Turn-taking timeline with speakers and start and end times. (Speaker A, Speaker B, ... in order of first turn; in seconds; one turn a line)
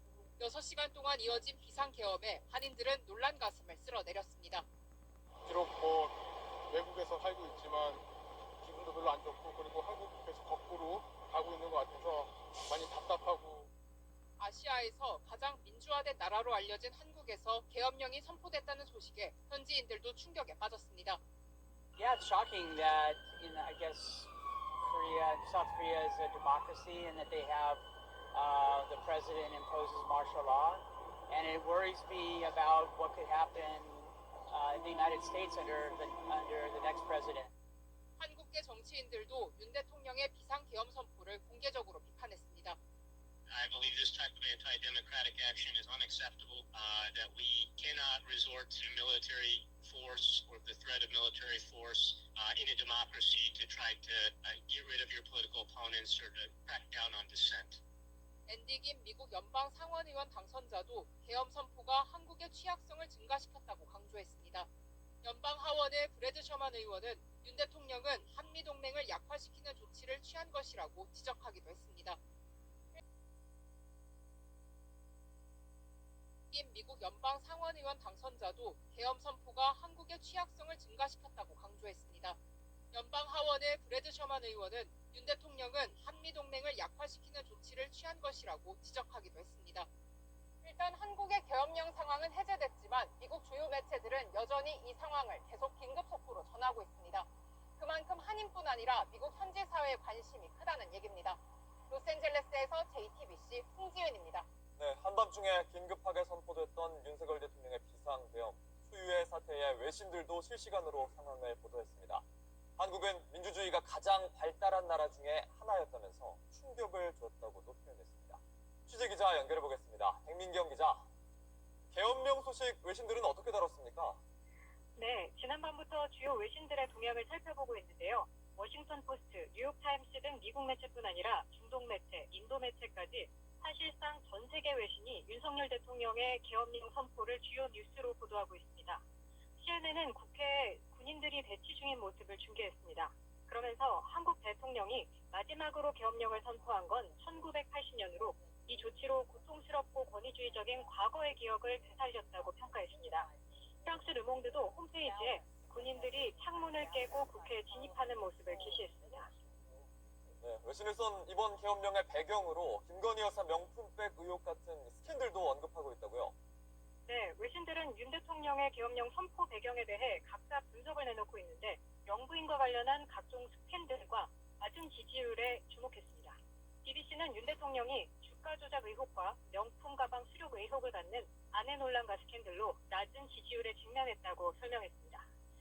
Speaker A: 0.4-4.6
Speaker B: 5.5-6.2
Speaker B: 6.7-8.0
Speaker B: 8.6-13.7
Speaker A: 14.4-21.2
Speaker C: 22.0-24.3
Speaker C: 24.8-37.5
Speaker A: 38.2-42.8
Speaker D: 43.6-57.8
Speaker A: 58.5-64.7
Speaker A: 65.2-72.2
Speaker A: 76.5-82.4
Speaker A: 82.9-89.9
Speaker A: 90.6-97.3
Speaker A: 97.8-101.4
Speaker A: 101.9-104.5
Speaker E: 104.8-112.2
Speaker E: 112.8-121.1
Speaker E: 121.9-124.2
Speaker F: 125.0-139.0
Speaker F: 139.6-153.3
Speaker F: 153.8-159.3
Speaker E: 160.4-166.3
Speaker F: 167.1-185.3